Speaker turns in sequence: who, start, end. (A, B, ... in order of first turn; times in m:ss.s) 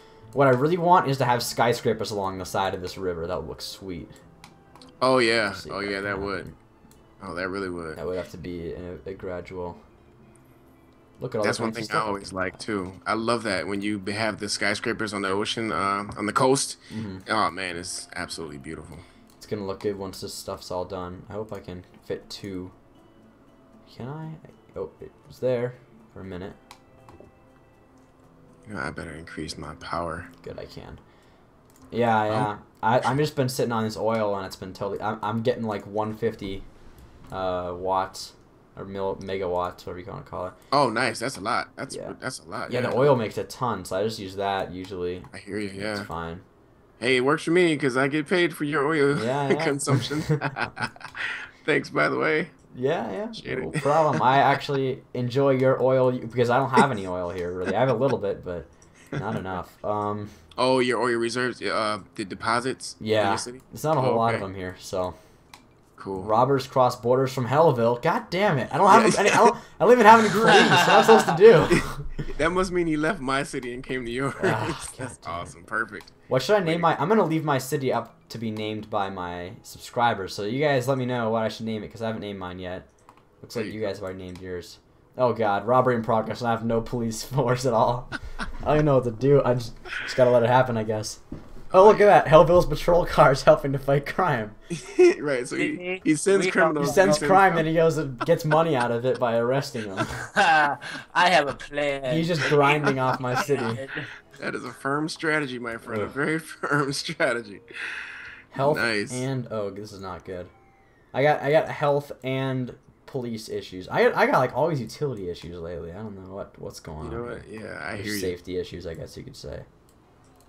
0:00.3-0:04.2 A
0:05.0-0:06.5 B
0:05.5-0:06.6 A
0:07.2-0:08.0 B
0:08.0-0:09.8 A
0:11.2-0:12.6 A
0:11.4-0:19.1 B
0:16.9-0:17.2 A
0:19.4-0:22.7 A
0:23.9-0:26.6 A
0:28.7-0:30.3 B
0:30.4-0:31.0 A
0:31.9-0:36.7 A
0:37.3-0:40.6 A
0:40.7-0:43.1 B
0:41.9-0:42.2 A
0:42.7-0:46.4 A
0:45.3-0:46.1 B
0:47.0-0:52.5 B
0:49.1-0:50.6 A
0:52.7-1:00.3 A
0:53.4-0:54.2 B
1:00.6-1:04.5 B
1:03.0-1:05.2 A
1:06.0-1:06.3 B
1:06.2-1:12.3 A
1:08.9-1:09.6 B
1:10.2-1:10.7 B
1:11.7-1:16.9 B
1:14.4-1:15.5 A
1:16.3-1:22.9 A
1:23.4-1:31.2 A
1:23.5-1:23.8 B
1:31.7-1:32.1 B
1:31.7-1:34.6 A
1:34.7-1:37.7 B
1:35.5-1:37.3 C
1:36.8-1:40.3 A
1:40.2-1:44.1 C
1:42.1-1:43.8 A
1:44.4-1:49.2 B
1:45.9-1:46.1 A
1:48.5-1:50.5 A
1:51.1-1:59.7 A
1:57.0-1:58.4 B